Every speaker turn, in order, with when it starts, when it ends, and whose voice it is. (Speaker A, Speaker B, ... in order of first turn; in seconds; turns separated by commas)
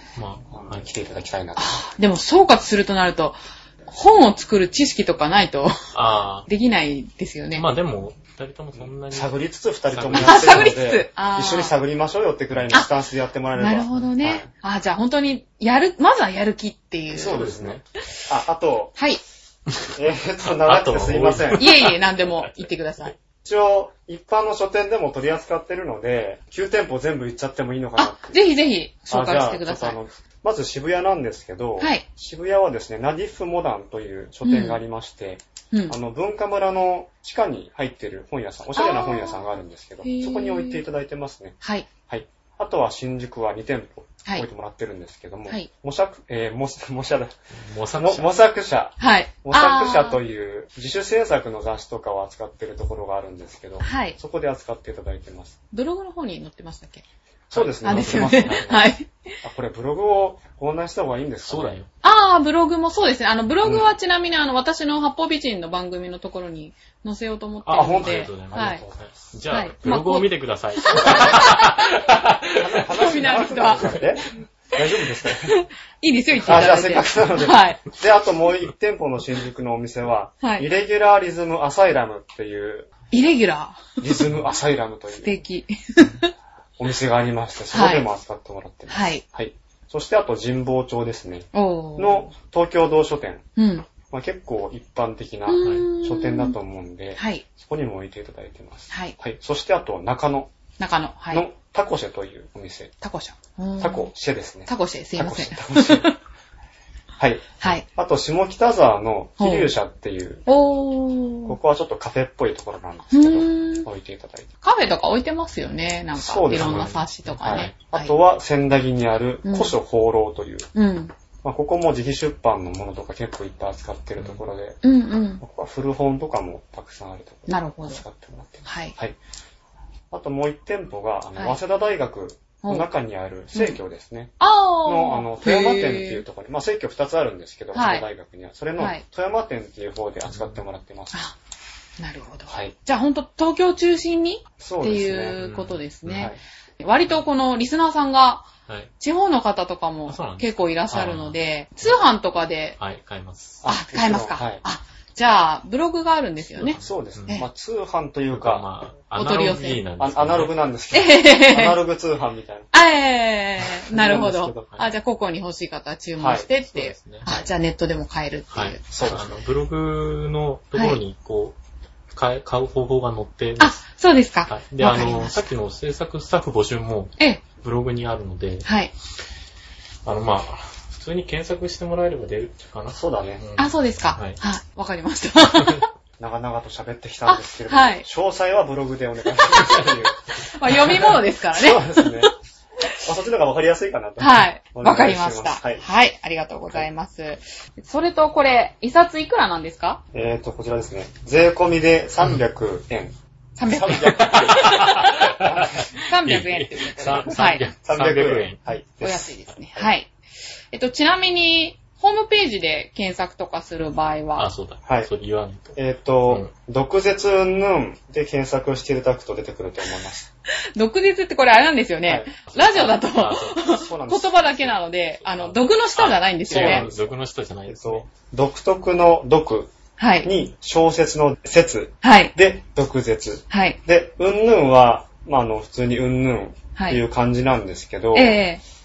Speaker A: 0.1-0.8, Speaker B: 0.5-1.8, Speaker C: 1.6-5.8, Speaker A: 5.9-6.5, Speaker C: 6.5-7.6, Speaker A: 7.5-9.4, Speaker B: 8.8-14.5, Speaker A: 9.9-10.8, Speaker C: 10.1-11.7, Speaker C: 13.5-17.4, Speaker B: 17.1-18.9, Speaker A: 17.3-17.8, Speaker C: 19.0-19.2, Speaker B: 19.9-21.7, Speaker A: 20.5-22.0, Speaker C: 21.6-23.1, Speaker B: 23.4-28.4, Speaker C: 28.0-30.0, Speaker B: 29.1-41.6, Speaker C: 31.8-32.0, Speaker C: 34.4-34.8, Speaker C: 38.7-39.5, Speaker C: 40.0-40.8, Speaker C: 41.6-41.9, Speaker B: 42.1-47.3, Speaker A: 47.6-48.3, Speaker B: 48.0-55.5, Speaker C: 49.0-50.2, Speaker C: 53.8-54.2, Speaker C: 55.7-57.0, Speaker B: 57.5-58.9, Speaker A: 57.5-58.8, Speaker C: 57.8-59.1, Speaker B: 59.4-61.8, Speaker A: 61.5-61.9, Speaker C: 62.0-68.8, Speaker B: 63.6-63.9, Speaker A: 67.7-72.9, Speaker B: 67.7-69.1, Speaker C: 69.5-71.9, Speaker B: 70.9-71.5, Speaker B: 72.5-75.5, Speaker C: 72.9-73.9, Speaker C: 75.3-77.8, Speaker B: 76.4-82.9, Speaker C: 80.4-80.7, Speaker C: 83.1-84.2, Speaker B: 84.0-85.4, Speaker C: 85.1-86.3, Speaker B: 86.8-93.4, Speaker C: 87.7-88.1, Speaker C: 88.9-89.2, Speaker C: 91.5-92.3, Speaker C: 93.5-93.9, Speaker B: 94.1-100.5, Speaker C: 95.5-96.5, Speaker C: 97.2-97.5, Speaker C: 98.9-99.2, Speaker C: 100.8-101.4, Speaker B: 101.3-102.9, Speaker C: 103.0-104.1, Speaker B: 103.8-106.1, Speaker C: 104.7-106.2, Speaker B: 107.2-110.4, Speaker C: 107.6-107.8, Speaker C: 109.4-109.7, Speaker C: 110.5-111.6, Speaker B: 111.5-114.5, Speaker C: 113.1-113.9, Speaker C: 114.6-118.1, Speaker B: 116.2-120.7, Speaker A: 116.5-117.7, Speaker C: 119.4-119.7, Speaker C: 120.7-121.1, Speaker B: 121.4-124.8, Speaker C: 124.8-125.4, Speaker B: 125.4-129.2, Speaker C: 127.5-128.0, Speaker C: 128.6-128.9, Speaker B: 130.1-141.2, Speaker C: 132.6-132.9, Speaker C: 134.4-136.2, Speaker C: 137.7-138.1, Speaker C: 138.8-139.0, Speaker A: 140.3-140.6, Speaker C: 142.0-148.5, Speaker B: 142.5-142.7, Speaker B: 144.6-145.4, Speaker A: 145.4-146.3, Speaker C: 149.0-152.8, Speaker A: 150.1-151.4, Speaker A: 152.8-153.6, Speaker B: 153.6-154.6, Speaker C: 153.7-157.4, Speaker A: 156.6-157.4, Speaker B: 156.8-158.7, Speaker A: 158.3-160.5, Speaker C: 159.1-159.8, Speaker B: 160.0-162.7, Speaker C: 160.9-161.8, Speaker C: 162.7-168.9, Speaker B: 163.9-164.5, Speaker A: 163.9-164.8, Speaker B: 166.2-166.5, Speaker A: 166.6-167.3, Speaker A: 168.5-171.6, Speaker B: 168.9-169.4, Speaker C: 170.7-171.0, Speaker A: 172.1-173.8, Speaker C: 173.6-175.4, Speaker A: 174.5-178.7, Speaker C: 178.6-178.9, Speaker A: 180.0-184.4, Speaker B: 182.9-183.4, Speaker C: 183.6-185.9, Speaker B: 186.2-192.3, Speaker C: 187.2-188.1, Speaker C: 190.5-192.3, Speaker B: 193.0-195.8, Speaker C: 194.2-200.0, Speaker B: 200.1-204.8, Speaker C: 203.6-205.4, Speaker A: 204.0-208.6, Speaker B: 205.4-205.9, Speaker C: 206.0-207.7, Speaker B: 207.8-209.9, Speaker C: 209.0-210.1, Speaker C: 210.7-214.5, Speaker A: 214.3-216.5, Speaker B: 215.8-220.3, Speaker C: 220.7-226.9, Speaker B: 222.1-222.4, Speaker A: 222.5-223.6, Speaker B: 223.7-224.8, Speaker A: 225.9-228.1, Speaker B: 226.5-227.1, Speaker B: 227.7-229.7, Speaker C: 230.0-230.3, Speaker B: 230.2-238.4, Speaker C: 232.0-232.3, Speaker C: 233.5-233.8, Speaker C: 236.8-237.0, Speaker C: 238.1-238.6